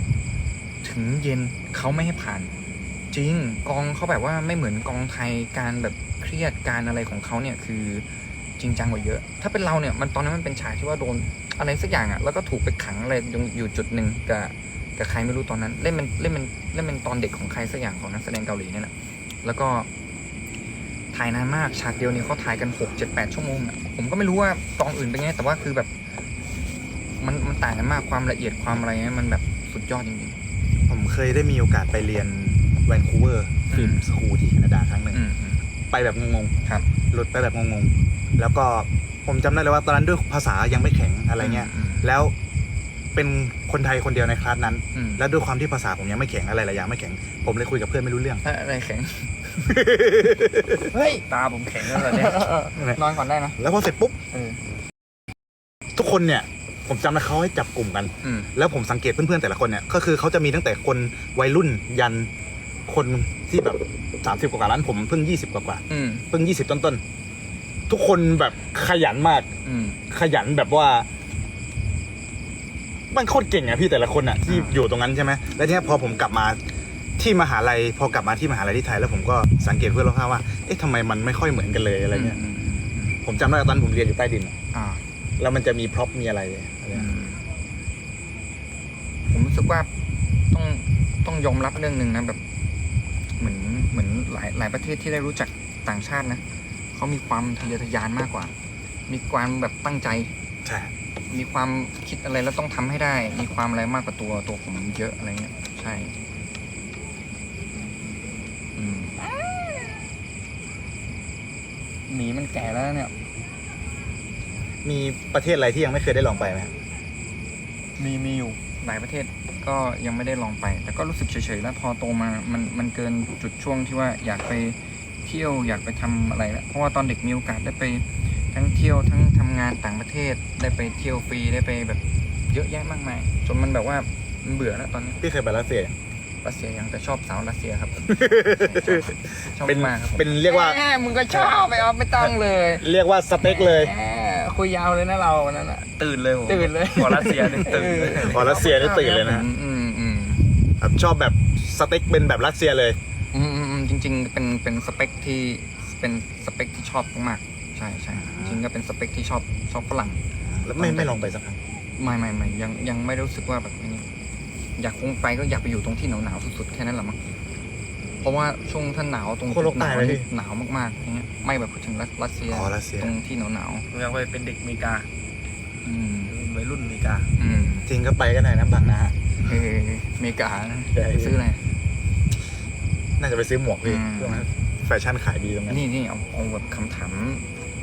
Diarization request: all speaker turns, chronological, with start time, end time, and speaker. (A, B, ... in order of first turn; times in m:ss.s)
0:00.8-0:02.5 A
0:03.1-0:08.1 A
0:08.6-0:18.9 A
0:19.4-0:19.9 A
0:21.1-0:25.9 A
0:27.2-0:30.4 A
0:30.9-0:35.2 B
0:33.7-0:34.0 A
0:35.1-0:35.6 A
0:35.9-0:36.6 B
0:37.1-0:42.3 B
0:41.4-0:42.0 A
0:43.2-0:48.4 B
0:45.0-0:45.2 A
0:48.4-0:49.3 A
0:49.6-0:50.9 B
0:50.9-0:51.2 A
0:51.0-0:52.6 C
0:51.8-0:53.6 A
0:52.8-0:53.0 B
0:53.6-0:54.2 B
0:56.0-1:02.3 B
0:58.2-0:58.5 A
1:02.9-1:07.0 B
1:05.9-1:06.3 A
1:07.9-1:09.5 B
1:09.6-1:10.0 A
1:10.1-1:11.1 B
1:13.1-1:16.6 B
1:14.5-1:14.8 A
1:17.2-1:22.4 B
1:22.1-1:23.2 A
1:23.2-1:24.6 B
1:24.7-1:25.0 A
1:25.4-1:27.1 B
1:26.9-1:27.4 A
1:29.3-1:29.9 A
1:30.5-1:32.4 A
1:33.4-1:36.4 A
1:36.9-1:38.5 A
1:39.1-1:40.3 A
1:40.6-1:40.9 B
1:41.3-1:46.2 A
1:48.8-1:49.2 A
1:52.1-1:53.1 A
1:54.8-1:56.7 B
1:58.0-2:15.2 A
2:15.2-2:15.9 B
2:16.4-2:25.9 A
2:18.1-2:20.8 B
2:21.3-2:21.6 B
2:22.2-2:23.9 B
2:26.0-2:28.5 C
2:26.5-2:30.4 A
2:28.1-2:29.5 B
2:30.8-2:33.0 B
2:33.3-2:40.2 A
2:38.2-2:38.6 B
2:40.4-2:41.6 B
2:40.8-2:41.4 A
2:42.0-2:44.1 A
2:44.8-2:47.2 A
2:48.2-2:53.9 A
2:49.5-2:50.3 B
2:52.5-2:53.1 B
2:53.9-2:55.1 C
2:55.8-2:56.3 A
2:56.3-2:57.3 C
2:57.4-2:57.9 A
2:57.9-2:59.2 B
2:59.4-3:01.6 A
3:00.9-3:01.3 B
3:03.2-3:05.8 B
3:03.8-3:04.5 A
3:05.7-3:07.4 A